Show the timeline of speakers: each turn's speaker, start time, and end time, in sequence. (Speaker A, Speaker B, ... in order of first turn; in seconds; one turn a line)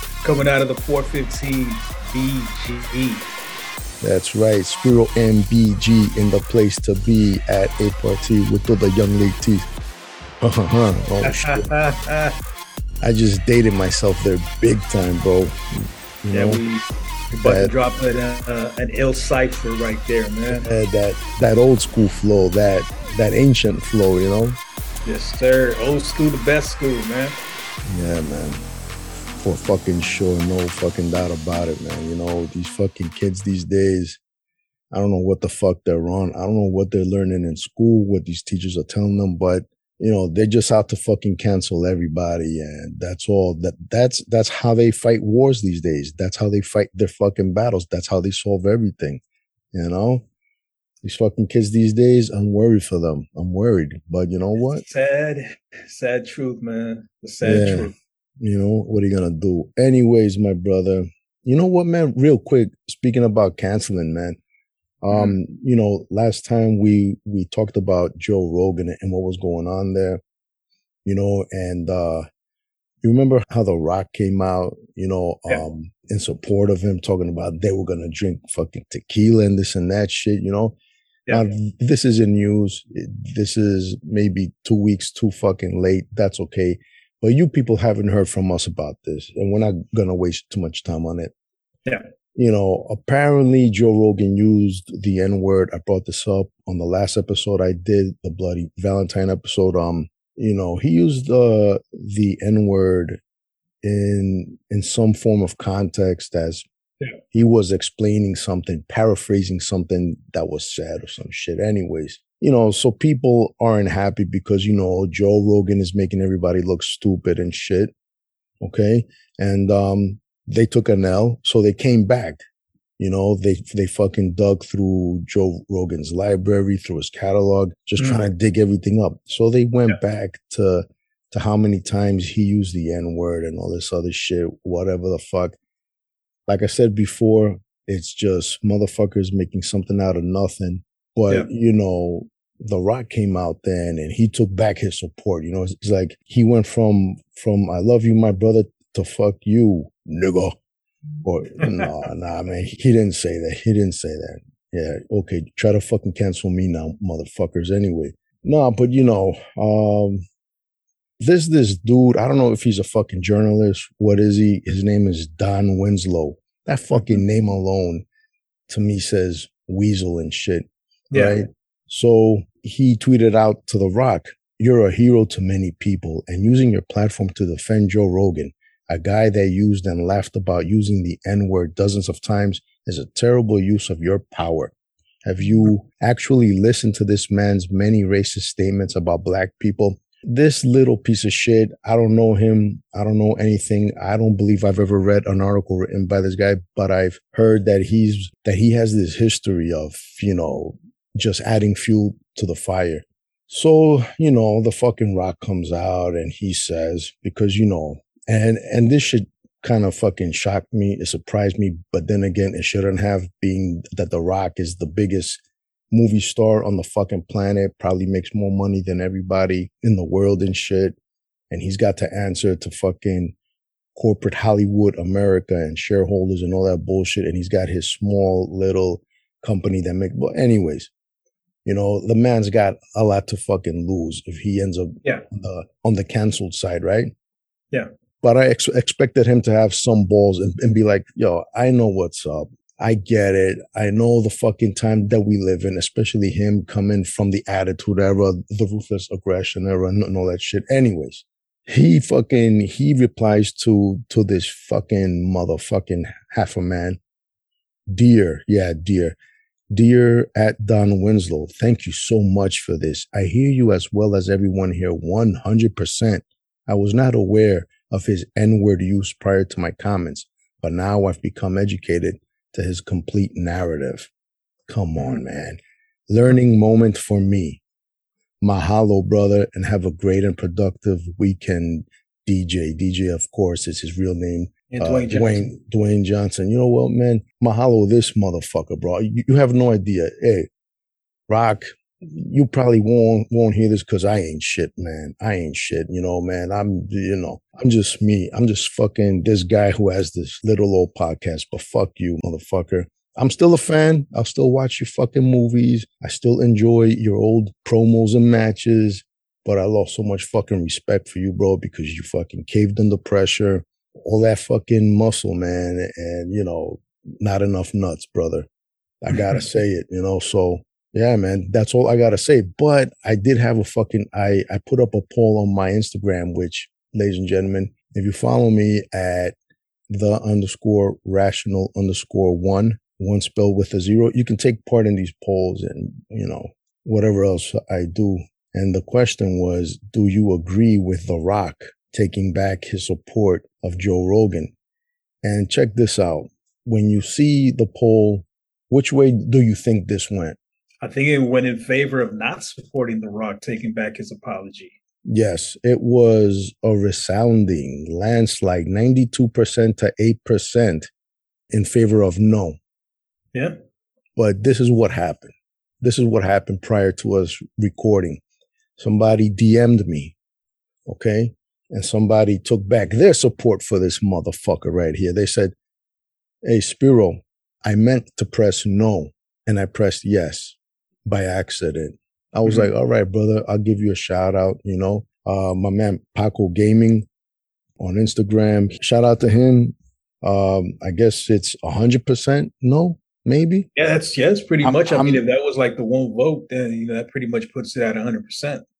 Speaker A: 0.2-3.3
Speaker B: 4.0-9.7
Speaker B: 10.4-11.7
Speaker A: 11.2-12.3
Speaker B: 13.0-16.6
Speaker A: 16.3-20.7
Speaker B: 17.4-17.7
Speaker B: 20.5-24.6
Speaker A: 25.0-27.4
Speaker B: 27.8-28.6
Speaker B: 29.4-34.2
Speaker B: 34.9-49.2
Speaker B: 49.7-50.3
Speaker B: 51.0-54.8
Speaker A: 54.7-57.9
Speaker B: 57.4-64.4
Speaker B: 65.0-70.2
Speaker A: 65.1-65.4
Speaker B: 71.0-72.2
Speaker B: 73.0-80.8
Speaker B: 81.3-91.3
Speaker B: 92.3-103.2
Speaker B: 103.8-106.7
Speaker B: 107.3-117.9
Speaker B: 118.6-122.4
Speaker B: 123.0-135.6
Speaker A: 128.0-128.2
Speaker B: 136.5-150.6
Speaker B: 151.2-160.2
Speaker B: 161.2-168.0
Speaker A: 166.9-167.2
Speaker B: 168.7-220.9
Speaker A: 171.1-171.4
Speaker B: 221.5-223.3
Speaker B: 223.9-230.9
Speaker B: 231.6-237.1
Speaker B: 238.2-257.0
Speaker B: 257.9-259.1
Speaker B: 259.7-274.1
Speaker B: 274.7-277.6
Speaker B: 278.4-290.5
Speaker A: 284.7-285.5
Speaker B: 291.3-318.5
Speaker B: 319.0-329.3
Speaker B: 329.9-344.5
Speaker B: 345.2-350.4
Speaker A: 350.8-354.7
Speaker B: 355.0-360.9
Speaker B: 361.5-362.6
Speaker B: 364.1-368.2
Speaker B: 368.8-370.1
Speaker B: 370.9-375.5
Speaker B: 376.4-387.1
Speaker A: 382.4-382.7
Speaker B: 387.8-393.7
Speaker A: 393.8-398.6
Speaker B: 394.6-395.2